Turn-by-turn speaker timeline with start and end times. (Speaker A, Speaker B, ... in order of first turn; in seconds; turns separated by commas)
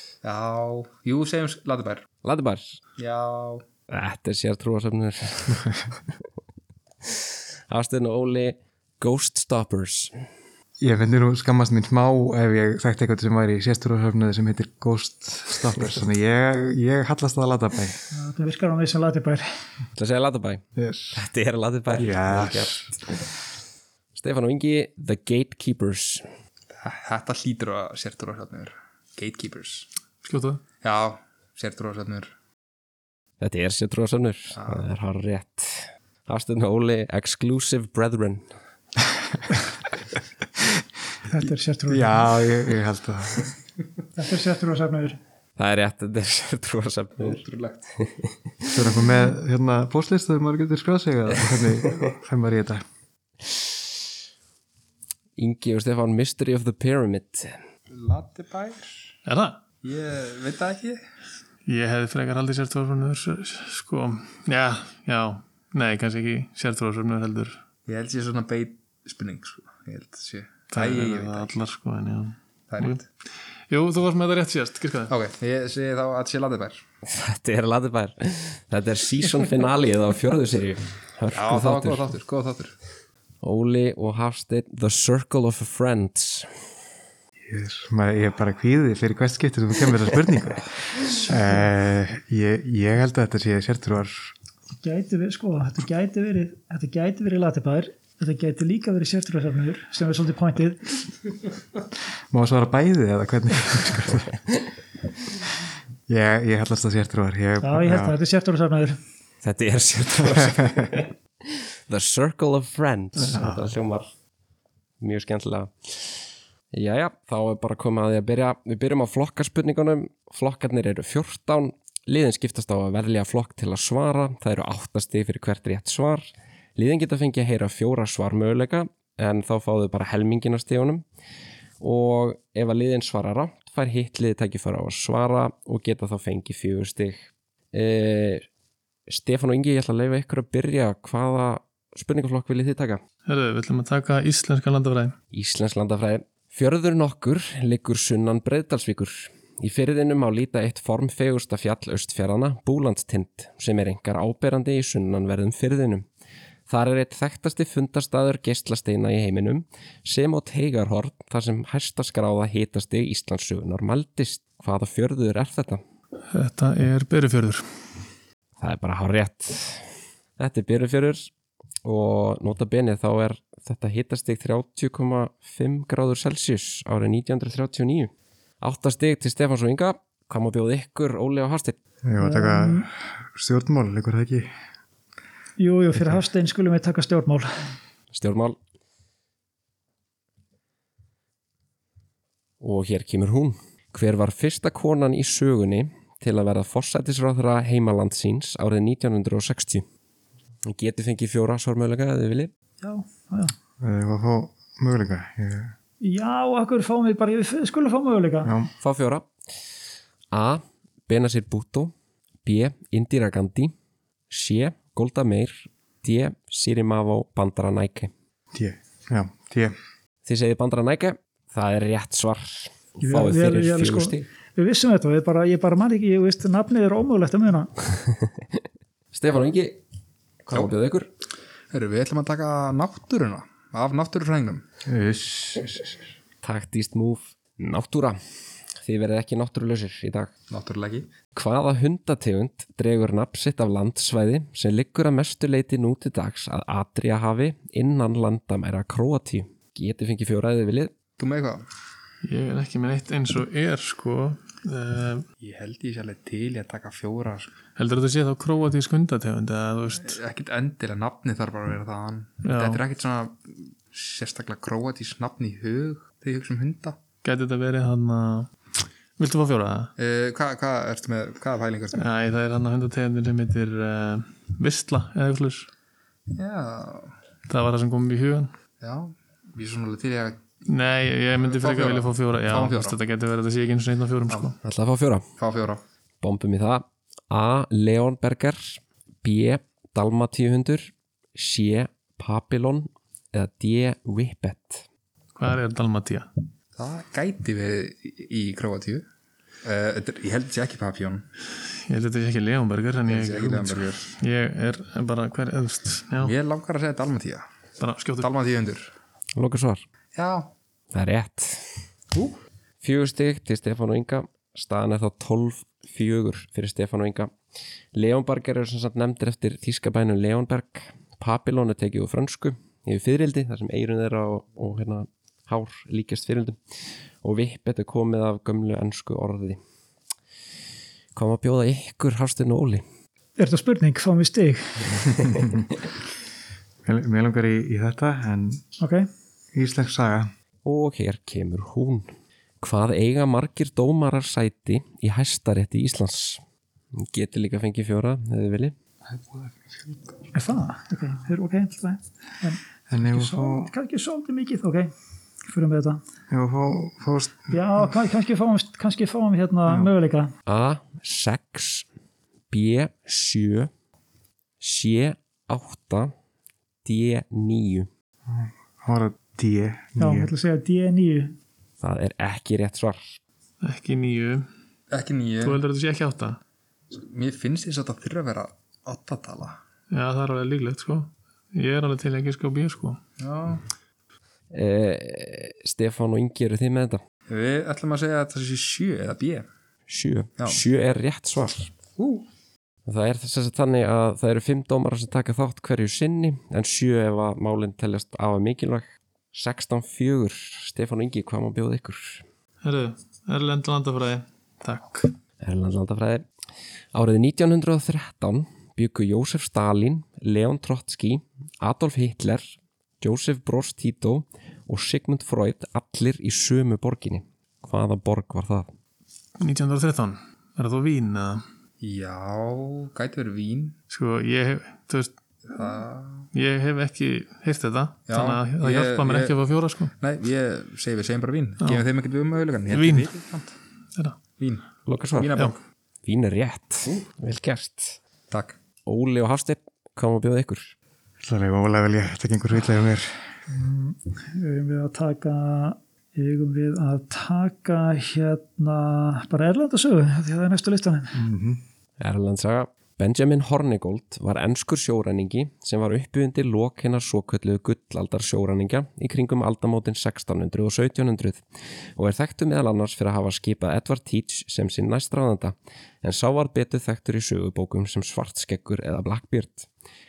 Speaker A: 0.2-2.0, Speaker B: 2.2-2.8, Speaker A: 3.0-3.6, Speaker B: 3.9-5.8, Speaker B: 7.7-10.1, Speaker C: 10.8-18.0, Speaker D: 18.1-19.4, Speaker B: 19.9-22.8, Speaker C: 20.8-21.2, Speaker C: 21.9-22.9, Speaker B: 24.1-26.3, Speaker A: 26.7-29.9, Speaker E: 30.2-30.6, Speaker A: 30.8-32.3, Speaker B: 33.4-38.5, Speaker A: 34.6-34.8, Speaker D: 41.3-42.2, Speaker C: 41.9-43.5, Speaker D: 44.1-45.2, Speaker B: 45.6-47.4, Speaker A: 47.2-47.9, Speaker B: 48.0-48.7, Speaker C: 48.7-52.8, Speaker B: 55.4-57.5, Speaker A: 57.9-58.9, Speaker E: 59.2-59.6, Speaker A: 59.8-61.0, Speaker E: 61.6-67.6, Speaker A: 67.9-71.5, Speaker E: 70.7-73.0, Speaker A: 72.7-73.0, Speaker E: 73.7-75.1, Speaker A: 75.1-76.8, Speaker B: 77.0-82.1, Speaker A: 81.3-82.7, Speaker B: 83.4-86.5, Speaker C: 87.4-94.3, Speaker D: 94.8-100.9, Speaker C: 102.3-104.4, Speaker C: 106.1-108.1, Speaker D: 107.6-109.0, Speaker B: 109.4-114.1, Speaker C: 113.2-113.7, Speaker B: 115.0-116.1, Speaker B: 116.7-131.0, Speaker B: 131.8-138.4, Speaker B: 139.1-143.0, Speaker E: 143.2-145.2, Speaker B: 145.3-156.1, Speaker B: 156.7-165.8, Speaker E: 166.3-167.9, Speaker B: 168.6-169.8, Speaker B: 170.4-171.3, Speaker B: 171.8-181.8, Speaker C: 182.0-184.5, Speaker D: 182.2-182.9, Speaker D: 185.6-187.5, Speaker B: 188.1-188.6, Speaker B: 192.6-199.8, Speaker B: 200.7-202.5, Speaker D: 202.8-203.5, Speaker C: 203.8-205.7, Speaker D: 206.0-208.5, Speaker C: 208.4-208.7, Speaker B: 208.8-209.3, Speaker B: 210.3-211.9, Speaker B: 212.4-213.7, Speaker B: 214.3-218.1, Speaker C: 218.5-219.7, Speaker B: 220.2-224.3, Speaker D: 223.0-227.7, Speaker B: 229.1-229.8, Speaker B: 230.4-231.1, Speaker A: 231.7-234.6, Speaker C: 234.8-236.0, Speaker B: 236.4-238.2, Speaker B: 238.8-240.3, Speaker A: 240.5-241.1, Speaker B: 241.3-250.9, Speaker A: 251.2-251.6, Speaker E: 252.2-255.2, Speaker A: 255.4-257.5, Speaker E: 257.8-260.2, Speaker A: 260.0-267.0, Speaker E: 262.4-262.8, Speaker E: 267.2-268.5, Speaker E: 269.2-269.9, Speaker A: 270.0-272.1, Speaker E: 271.9-275.7, Speaker A: 276.3-277.1, Speaker E: 277.5-278.5, Speaker A: 278.8-280.4, Speaker E: 280.7-284.6, Speaker A: 281.4-283.0, Speaker B: 284.6-285.3, Speaker A: 285.4-285.8, Speaker B: 286.2-294.9, Speaker E: 295.3-296.3, Speaker A: 296.8-299.0, Speaker A: 299.6-301.2, Speaker E: 301.7-306.3, Speaker A: 303.1-304.1, Speaker A: 306.2-307.4, Speaker E: 307.8-308.3, Speaker A: 308.2-308.9, Speaker B: 309.4-309.8, Speaker A: 310.1-310.5, Speaker B: 310.9-311.7, Speaker B: 312.8-317.3, Speaker B: 317.9-326.6, Speaker B: 327.2-329.6, Speaker B: 331.1-332.8, Speaker D: 333.4-335.1, Speaker C: 336.8-338.6, Speaker D: 338.8-339.1, Speaker C: 339.5-340.3, Speaker B: 340.6-346.4, Speaker B: 346.9-348.7, Speaker C: 349.0-350.1, Speaker D: 350.3-354.9, Speaker C: 352.9-353.7, Speaker D: 355.4-356.0, Speaker C: 356.3-357.5, Speaker D: 357.5-360.3, Speaker B: 360.5-361.9, Speaker B: 362.5-363.7, Speaker B: 364.6-366.1, Speaker B: 366.8-367.9, Speaker C: 368.2-370.3, Speaker D: 370.0-371.4, Speaker B: 371.8-373.2, Speaker E: 373.6-374.5, Speaker A: 374.9-375.6, Speaker E: 375.4-376.4, Speaker A: 376.9-379.6, Speaker E: 379.9-383.0, Speaker A: 383.2-383.6, Speaker B: 384.5-387.0, Speaker A: 387.3-389.4, Speaker B: 389.9-391.7, Speaker A: 390.4-390.6, Speaker A: 392.0-392.2, Speaker B: 392.9-402.2, Speaker E: 402.6-405.1, Speaker B: 405.4-406.2, Speaker B: 406.9-418.7, Speaker E: 419.4-421.4, Speaker A: 421.8-423.8, Speaker E: 423.9-425.1, Speaker A: 425.5-426.3, Speaker E: 426.3-429.9, Speaker A: 428.1-429.4, Speaker A: 430.0-433.5, Speaker E: 432.7-433.1, Speaker A: 434.4-435.6, Speaker B: 434.9-435.4, Speaker B: 436.0-438.0, Speaker A: 438.3-438.6, Speaker B: 438.9-440.7, Speaker C: 441.2-443.1, Speaker D: 443.5-451.2, Speaker C: 451.1-451.6, Speaker B: 452.0-461.4, Speaker B: 461.9-469.7